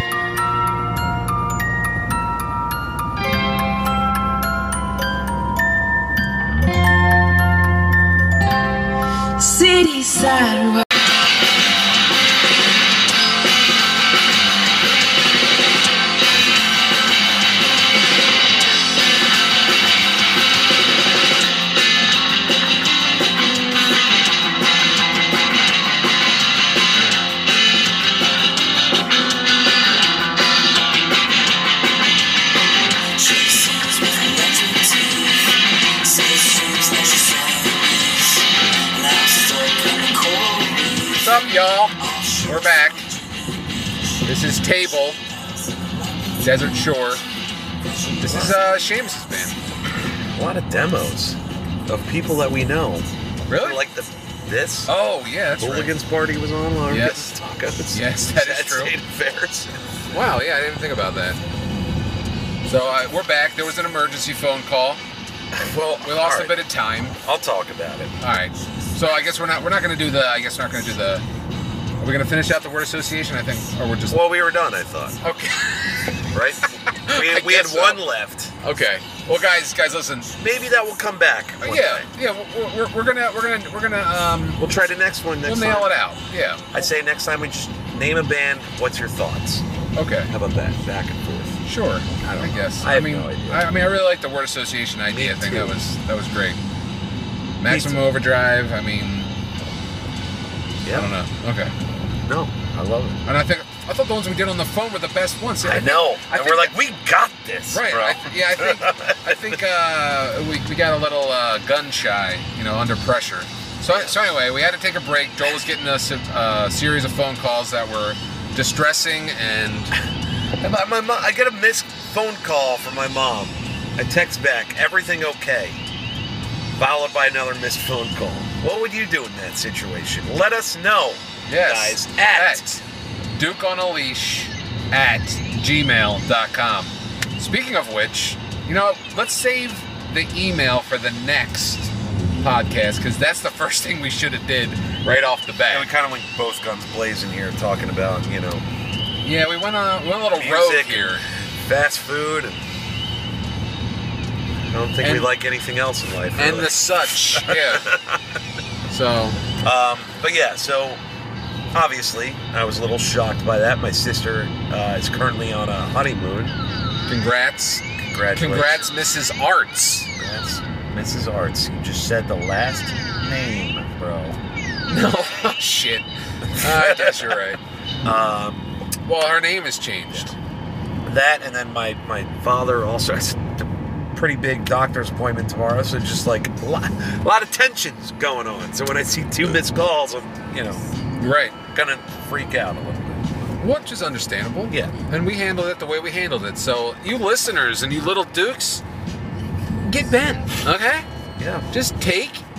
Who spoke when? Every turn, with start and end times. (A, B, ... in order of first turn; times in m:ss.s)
0:09.4-0:10.8 A
0:33.1-0:41.3 A
0:41.1-0:43.1 B
0:42.0-0:42.4 A
0:44.2-0:45.2 B
0:46.4-0:47.2 B
0:48.2-0:49.6 B
0:48.2-0:48.6 C
0:50.3-0:54.9 C
0:53.5-0:53.8 B
0:54.9-0:55.9 B
0:55.6-1:00.0 C
0:56.9-0:57.3 B
0:57.9-0:58.9 B
1:00.1-1:01.4 B
1:02.6-1:05.0 B
1:05.5-1:06.6 C
1:06.0-1:07.2 B
1:07.2-1:08.1 C
1:08.2-1:11.2 B
1:12.0-1:14.2 B
1:14.1-1:15.2 C
1:15.2-1:18.0 B
1:16.3-1:18.5 C
1:18.6-1:20.3 B
1:20.3-1:22.1 C
1:21.6-1:24.6 B
1:24.6-1:25.9 C
1:25.4-1:26.6 B
1:26.7-1:29.6 C
1:29.9-1:30.3 B
1:30.2-1:31.6 C
1:31.6-1:36.6 B
1:32.2-1:33.7 C
1:35.1-1:35.8 C
1:37.6-1:39.3 B
1:37.7-1:38.1 C
1:40.8-1:41.1 C
1:40.9-1:41.7 B
1:42.2-1:43.4 C
1:43.3-1:46.7 B
1:45.6-1:49.6 C
1:47.7-1:59.9 B
1:53.9-1:54.2 C
2:00.6-2:05.8 C
2:06.8-2:12.7 C
2:11.5-2:25.9 B
2:25.7-2:28.6 C
2:29.2-2:31.2 B
2:30.3-2:32.7 C
2:34.6-2:38.2 C
2:35.0-2:35.3 B
2:36.4-2:38.0 B
2:38.9-2:39.4 B
2:39.6-2:41.0 C
2:41.7-2:46.5 C
2:47.1-2:50.1 B
2:48.0-2:48.9 C
2:50.2-2:54.4 C
2:54.9-2:57.6 B
2:56.5-2:57.4 C
2:58.0-2:58.6 C
2:59.0-3:00.3 B
3:01.0-3:10.8 C
3:11.2-3:11.6 B
3:11.7-3:13.2 C
3:13.6-3:18.8 B
3:14.7-3:14.9 C
3:19.8-3:21.0 B
3:21.4-3:21.7 C
3:21.7-3:22.4 B